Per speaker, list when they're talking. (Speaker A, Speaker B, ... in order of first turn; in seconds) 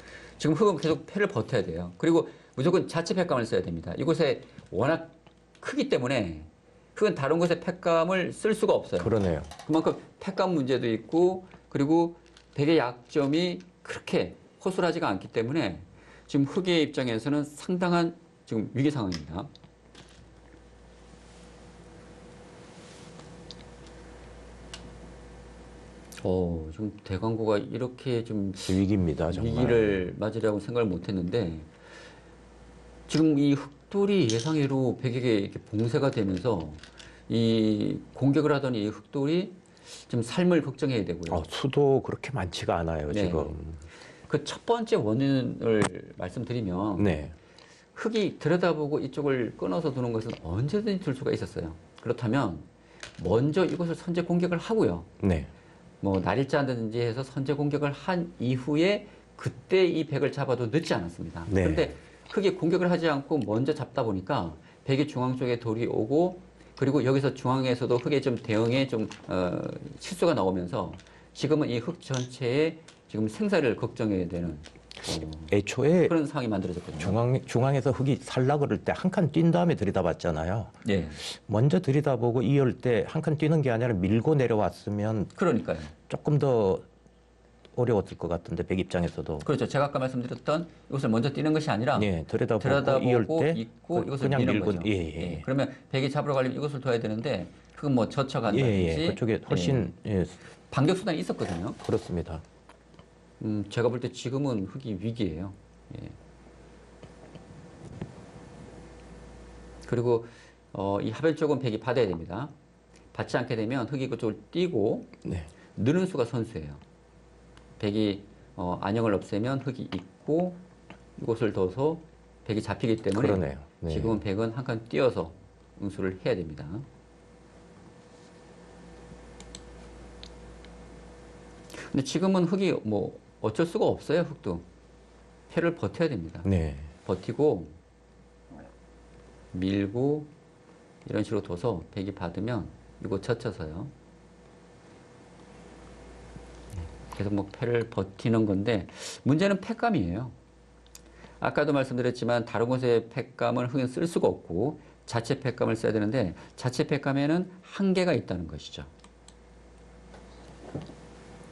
Speaker A: 0.4-19.5, 26.2-31.7, 33.1-41.5, 43.1-43.5, 44.3-47.1, 48.0-52.7, 53.2-55.1, 56.0-77.2, 80.8-81.2, 85.4-85.9, 89.4-99.9, 100.7-101.8, 103.4-106.2, 109.8-112.5, 113.1-115.2, 115.8-116.8, 117.8-120.6, 121.2-126.9, 131.7-134.7, 135.5-136.5, 137.1-137.7, 139.5-140.3, 141.1-143.9, 147.0-150.3, 151.4-158.9
Speaker B: 9.0-9.5, 28.7-30.1, 41.3-43.8, 47.0-47.4, 55.2-55.5, 61.5-61.9, 75.5-76.2, 77.0-85.3, 86.1-86.9, 87.8-89.5, 92.0-95.5, 98.5-100.4, 101.8-102.4, 115.2-115.5, 123.1-124.2, 136.4-136.9